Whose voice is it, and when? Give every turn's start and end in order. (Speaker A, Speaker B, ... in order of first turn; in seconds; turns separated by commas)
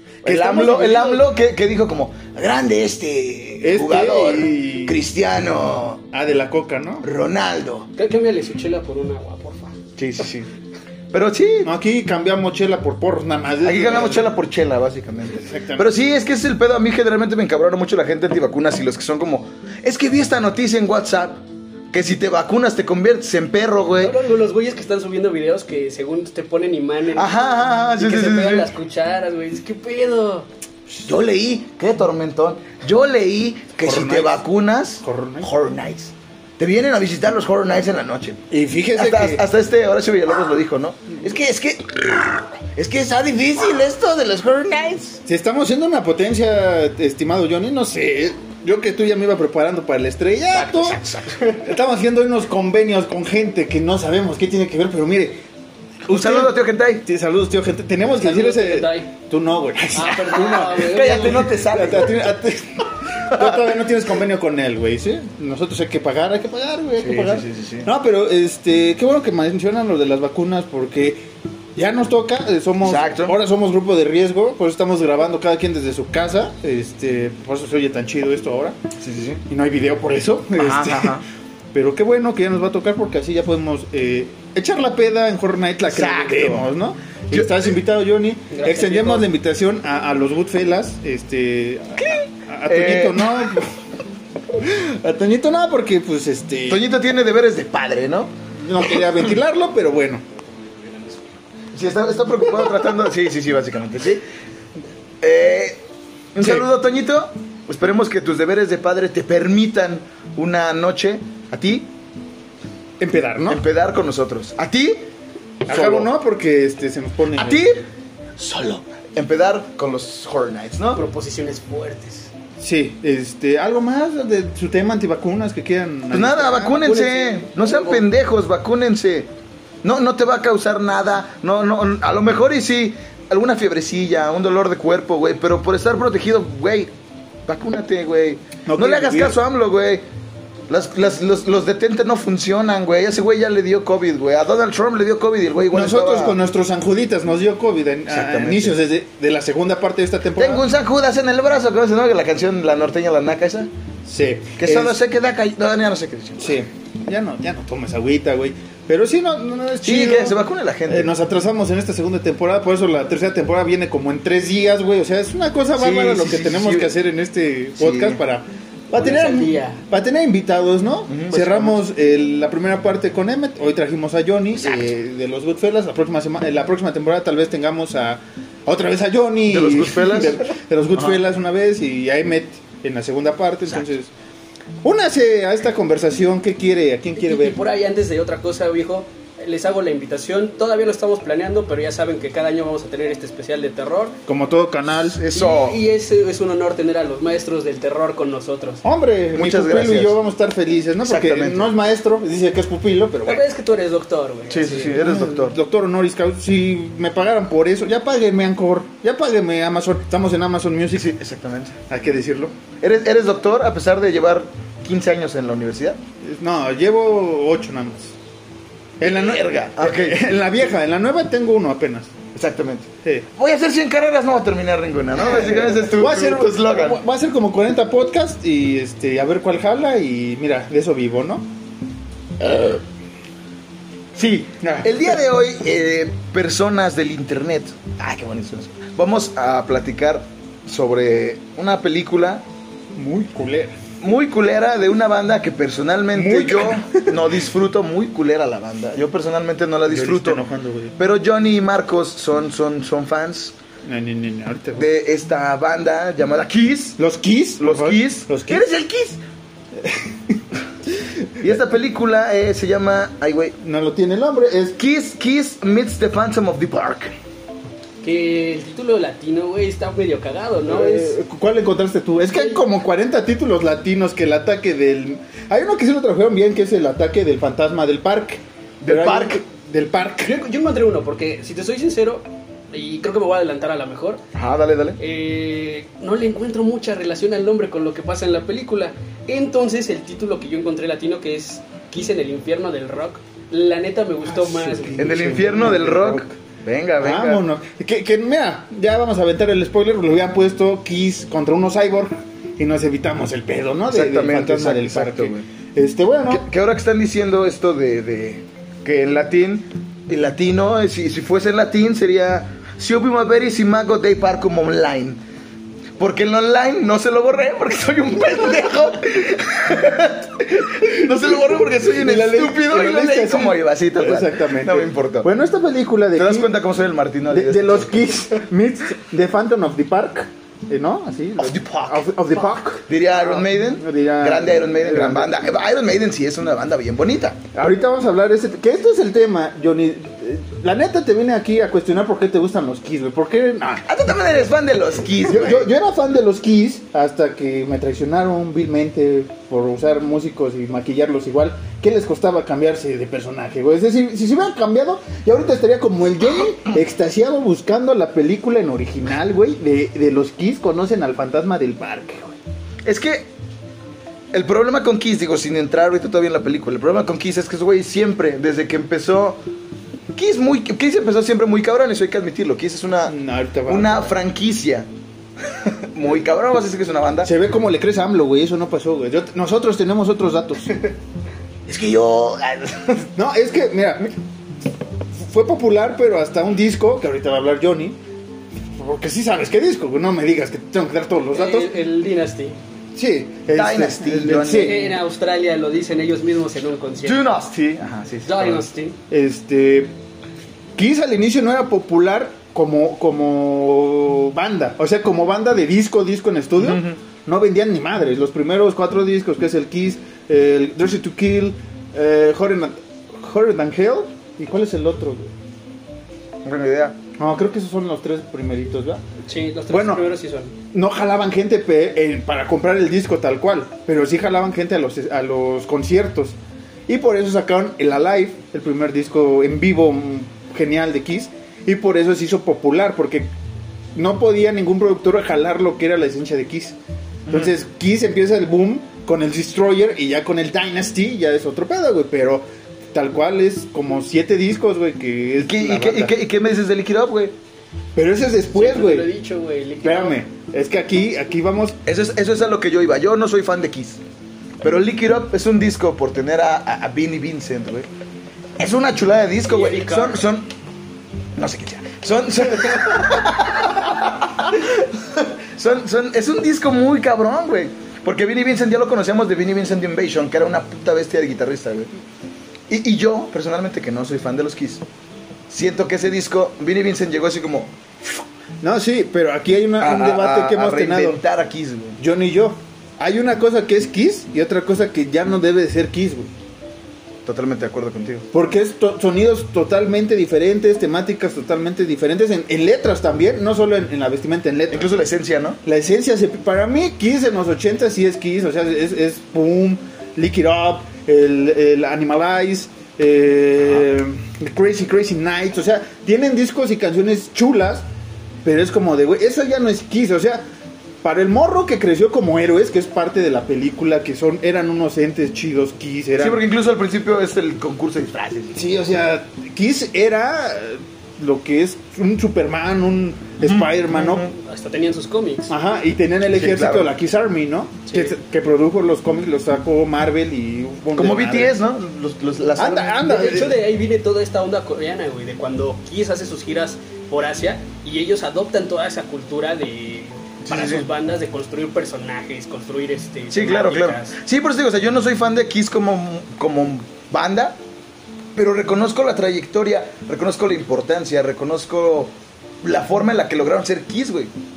Speaker A: 0.2-6.0, Speaker B: 0.2-1.3, Speaker B: 3.6-5.0, Speaker B: 6.1-7.1, Speaker A: 7.0-7.9, Speaker C: 8.0-9.8, Speaker A: 10.0-10.5, Speaker A: 11.1-11.7, Speaker B: 11.6-14.3, Speaker A: 13.6-24.2, Speaker B: 15.4-15.9, Speaker C: 24.0-30.5, Speaker A: 27.1-28.7, Speaker A: 31.0-38.4, Speaker B: 33.8-34.4, Speaker B: 35.0-35.5, Speaker B: 38.5-39.5, Speaker A: 38.9-45.2, Speaker B: 45.2-55.4, Speaker A: 50.5-51.4, Speaker B: 56.0-71.2, Speaker A: 56.1-57.0, Speaker C: 58.1-59.1, Speaker C: 59.9-61.6, Speaker A: 60.3-62.4, Speaker A: 63.3-63.6, Speaker A: 67.0-67.9, Speaker B: 71.8-78.8, Speaker A: 72.8-73.3, Speaker A: 79.0-79.4, Speaker B: 79.5-81.2, Speaker A: 80.5-81.2, Speaker B: 81.7-93.8, Speaker A: 85.8-86.7, Speaker A: 87.3-87.7, Speaker C: 88.5-89.3, Speaker A: 92.0-93.6, Speaker B: 94.5-96.8, Speaker A: 96.7-99.0, Speaker B: 98.6-100.3, Speaker B: 100.9-101.2, Speaker A: 101.7-104.2, Speaker A: 105.2-105.8, Speaker A: 106.3-111.9, Speaker B: 113.0-113.6, Speaker A: 113.5-115.1, Speaker A: 115.7-116.1, Speaker B: 115.7-117.6, Speaker A: 117.3-117.8, Speaker A: 118.4-121.0, Speaker C: 120.9-122.3, Speaker B: 122.6-126.8, Speaker A: 126.1-129.3, Speaker C: 126.7-128.1, Speaker A: 129.8-136.9, Speaker A: 137.4-140.0, Speaker B: 138.7-139.4, Speaker A: 140.7-146.4, Speaker B: 145.7-150.7, Speaker A: 148.1-148.8, Speaker A: 150.3-153.7, Speaker B: 154.1-155.0, Speaker A: 154.6-156.6, Speaker B: 156.4-184.1, Speaker A: 159.8-161.1, Speaker A: 165.8-166.9, Speaker A: 167.8-168.2, Speaker C: 168.9-169.8, Speaker A: 171.1-171.8, Speaker A: 179.5-181.2, Speaker B: 184.8-187.6, Speaker C: 187.2-194.2, Speaker B: 194.3-195.2, Speaker A: 195.0-195.8, Speaker C: 195.3-198.8, Speaker B: 198.8-203.4, Speaker A: 199.3-200.2, Speaker A: 201.0-201.7, Speaker C: 203.2-205.0, Speaker A: 204.5-205.6, Speaker B: 204.9-211.1, Speaker A: 210.9-211.8, Speaker B: 211.9-212.6, Speaker A: 212.8-216.0, Speaker B: 216.2-218.1, Speaker B: 219.0-222.1, Speaker A: 219.0-220.2, Speaker A: 222.3-227.0, Speaker B: 225.2-231.5, Speaker A: 232.4-232.8, Speaker A: 234.1-242.4, Speaker B: 234.6-235.1, Speaker B: 242.9-243.8, Speaker A: 244.0-250.4, Speaker B: 246.1-247.2, Speaker B: 249.9-250.9, Speaker A: 251.0-253.5, Speaker B: 253.8-254.9, Speaker A: 254.8-257.0, Speaker B: 257.0-258.7, Speaker A: 257.6-259.2, Speaker B: 259.8-260.4, Speaker A: 261.4-263.6, Speaker B: 263.6-264.8, Speaker A: 264.8-267.2, Speaker C: 268.0-271.1, Speaker B: 270.7-280.3, Speaker C: 272.3-272.6, Speaker A: 278.8-279.4, Speaker C: 280.2-284.2, Speaker A: 284.3-285.0, Speaker C: 285.0-295.1, Speaker B: 294.2-296.3, Speaker A: 295.0-297.4, Speaker B: 297.0-306.5, Speaker A: 303.9-305.4, Speaker A: 306.3-315.2, Speaker A: 316.0-325.3, Speaker B: 321.2-326.5, Speaker A: 326.1-328.1, Speaker B: 327.3-335.4, Speaker A: 331.4-337.4, Speaker B: 337.5-343.9, Speaker A: 343.8-345.7, Speaker B: 345.2-362.4, Speaker A: 362.8-363.3, Speaker A: 364.3-369.4, Speaker A: 370.1-373.1, Speaker B: 373.1-374.2, Speaker A: 373.7-374.9, Speaker A: 375.4-377.3, Speaker B: 377.2-380.8, Speaker A: 381.7-383.0, Speaker B: 383.1-384.1, Speaker B: 385.1-388.0, Speaker B: 388.8-391.7, Speaker C: 391.3-392.6, Speaker B: 392.9-394.9, Speaker A: 393.5-395.0, Speaker C: 394.4-397.4, Speaker A: 397.0-398.7, Speaker C: 398.2-399.0, Speaker B: 399.1-399.9, Speaker B: 400.8-415.3, Speaker A: 406.6-407.0, Speaker A: 416.4-417.0, Speaker B: 417.2-419.0, Speaker C: 419.2-420.5, Speaker B: 419.7-420.1, Speaker B: 420.7-433.3, Speaker B: 433.9-436.8, Speaker A: 437.3-437.5, Speaker B: 437.3-446.1, Speaker A: 445.4-447.3, Speaker B: 447.9-449.1, Speaker C: 448.5-450.2, Speaker B: 449.8-451.8, Speaker A: 451.9-454.0, Speaker A: 454.6-457.9, Speaker A: 458.6-460.5, Speaker C: 459.4-460.2, Speaker A: 461.4-471.9, Speaker A: 472.7-474.8, Speaker A: 475.5-478.1, Speaker B: 478.6-481.2, Speaker A: 479.8-482.0, Speaker B: 482.0-486.3, Speaker A: 487.2-488.3, Speaker B: 488.3-495.0, Speaker A: 494.7-495.6, Speaker B: 495.6-507.9, Speaker B: 508.4-510.4, Speaker B: 511.0-516.4, Speaker A: 516.2-518.6, Speaker B: 518.5-524.3, Speaker A: 523.4-524.3, Speaker C: 524.3-525.5, Speaker B: 525.5-531.5, Speaker A: 526.3-526.9, Speaker A: 531.0-533.4, Speaker B: 532.6-533.5, Speaker C: 533.0-544.2, Speaker A: 540.4-540.9, Speaker A: 543.3-547.6, Speaker A: 548.3-554.3